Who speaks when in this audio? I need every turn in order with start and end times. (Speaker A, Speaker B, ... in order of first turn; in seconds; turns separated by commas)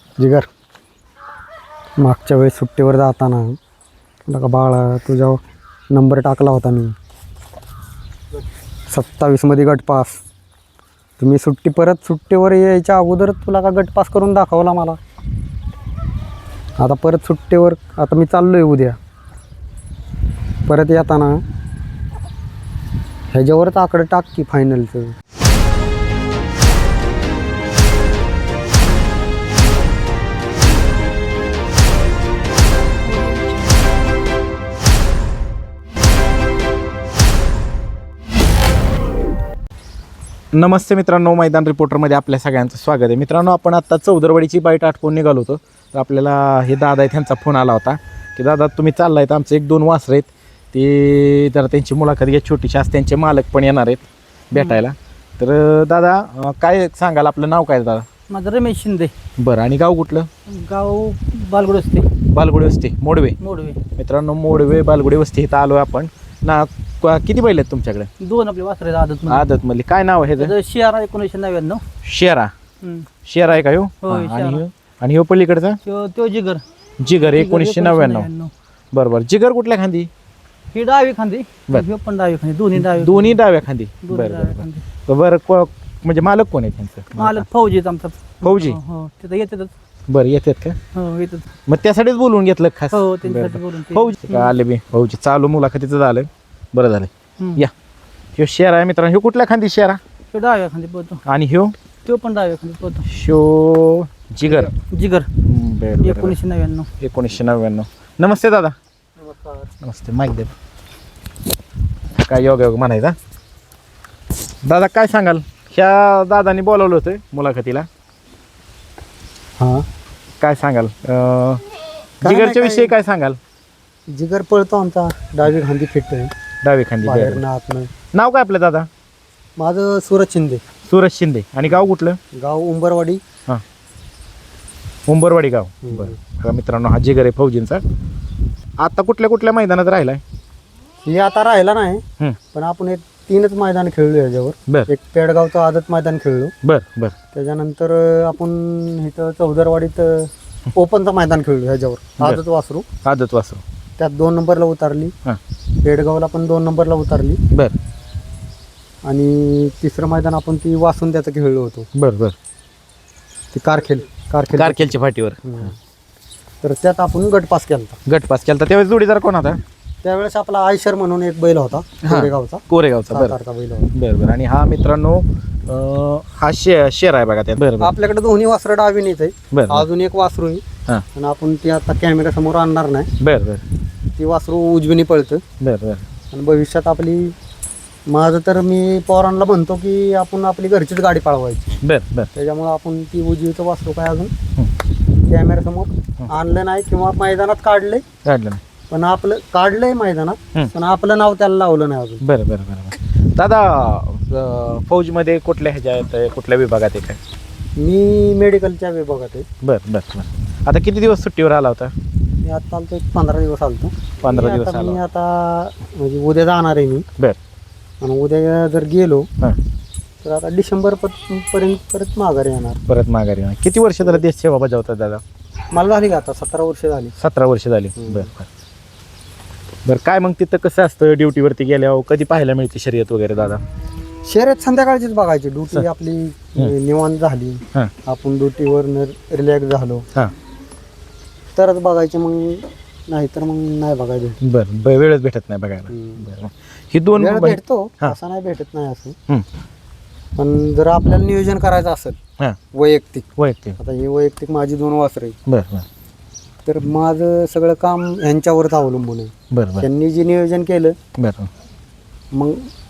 Speaker A: 0.2-0.5, Speaker A: 2.0-3.6, Speaker A: 4.3-5.4, Speaker A: 5.9-7.0, Speaker A: 8.9-10.2, Speaker A: 11.2-15.0, Speaker A: 16.8-19.0, Speaker A: 20.7-21.4, Speaker A: 23.3-25.1, Speaker B: 33.2-33.5, Speaker C: 40.5-58.0, Speaker B: 54.5-54.8, Speaker B: 58.3-59.1, Speaker C: 59.4-60.3, Speaker B: 60.5-62.2, Speaker C: 62.2-63.4, Speaker B: 63.4-63.8, Speaker C: 63.9-68.1, Speaker B: 68.2-69.5, Speaker C: 69.2-70.5, Speaker B: 70.4-71.8, Speaker C: 72.0-72.5, Speaker B: 72.8-73.1, Speaker C: 73.2-75.8, Speaker B: 74.0-74.6, Speaker B: 75.8-76.6, Speaker C: 77.0-78.3, Speaker B: 77.2-78.5, Speaker C: 78.9-80.1, Speaker B: 80.7-83.4, Speaker C: 82.7-87.5, Speaker B: 84.0-84.8, Speaker B: 87.2-89.7, Speaker C: 88.4-88.8, Speaker C: 90.1-90.8, Speaker B: 90.9-91.5, Speaker C: 91.7-97.7, Speaker B: 92.9-94.5, Speaker B: 97.4-97.6, Speaker C: 98.4-100.0, Speaker B: 100.3-101.2, Speaker C: 101.2-101.8, Speaker B: 102.0-103.0, Speaker C: 103.0-104.7, Speaker B: 104.5-105.3, Speaker C: 105.4-106.4, Speaker B: 106.0-106.9, Speaker C: 107.0-108.8, Speaker A: 109.2-109.7, Speaker C: 109.8-110.5, Speaker C: 112.2-113.2, Speaker C: 114.6-117.9, Speaker A: 119.6-119.8, Speaker C: 120.4-121.6, Speaker A: 122.2-122.9, Speaker C: 122.2-123.4, Speaker A: 124.1-126.3, Speaker C: 126.6-127.4, Speaker A: 127.0-127.9, Speaker C: 128.1-128.9, Speaker A: 129.6-130.6, Speaker C: 130.9-132.2, Speaker A: 132.3-133.2, Speaker C: 135.1-137.8, Speaker A: 135.8-136.2, Speaker C: 138.8-140.2, Speaker A: 141.0-146.5, Speaker C: 146.6-147.2, Speaker A: 147.3-152.8, Speaker C: 153.0-153.6, Speaker A: 154.0-155.1, Speaker A: 155.8-157.4, Speaker A: 159.0-161.9, Speaker C: 161.9-162.3, Speaker A: 163.5-165.8, Speaker C: 164.5-165.4, Speaker A: 166.6-168.0, Speaker C: 168.1-169.6, Speaker A: 170.0-173.9, Speaker C: 172.0-173.3, Speaker C: 173.9-177.9, Speaker A: 177.8-180.6, Speaker C: 179.5-179.9, Speaker A: 181.1-183.1, Speaker C: 183.2-183.6, Speaker A: 184.2-185.4, Speaker C: 185.6-186.0, Speaker A: 186.3-187.3, Speaker A: 188.1-191.8, Speaker C: 191.8-192.3, Speaker A: 192.3-194.3, Speaker A: 195.3-198.0, Speaker C: 198.2-198.6, Speaker A: 198.9-202.2, Speaker C: 202.2-207.2, Speaker A: 207.8-209.5, Speaker C: 209.6-211.9, Speaker A: 212.4-217.0, Speaker C: 214.2-215.0, Speaker A: 218.0-219.3, Speaker A: 220.2-222.8, Speaker C: 222.9-225.2, Speaker A: 225.7-227.2, Speaker C: 227.2-228.5, Speaker A: 228.0-228.2, Speaker C: 229.8-233.6, Speaker A: 234.2-240.1, Speaker A: 241.5-244.4, Speaker C: 244.4-248.2, Speaker A: 245.9-246.2, Speaker A: 247.2-249.2, Speaker A: 250.3-252.2, Speaker A: 252.7-253.2, Speaker C: 253.4-253.8, Speaker A: 253.8-255.4, Speaker C: 255.5-255.9, Speaker A: 256.6-260.9, Speaker C: 259.5-259.9, Speaker C: 261.2-261.5, Speaker A: 262.3-262.7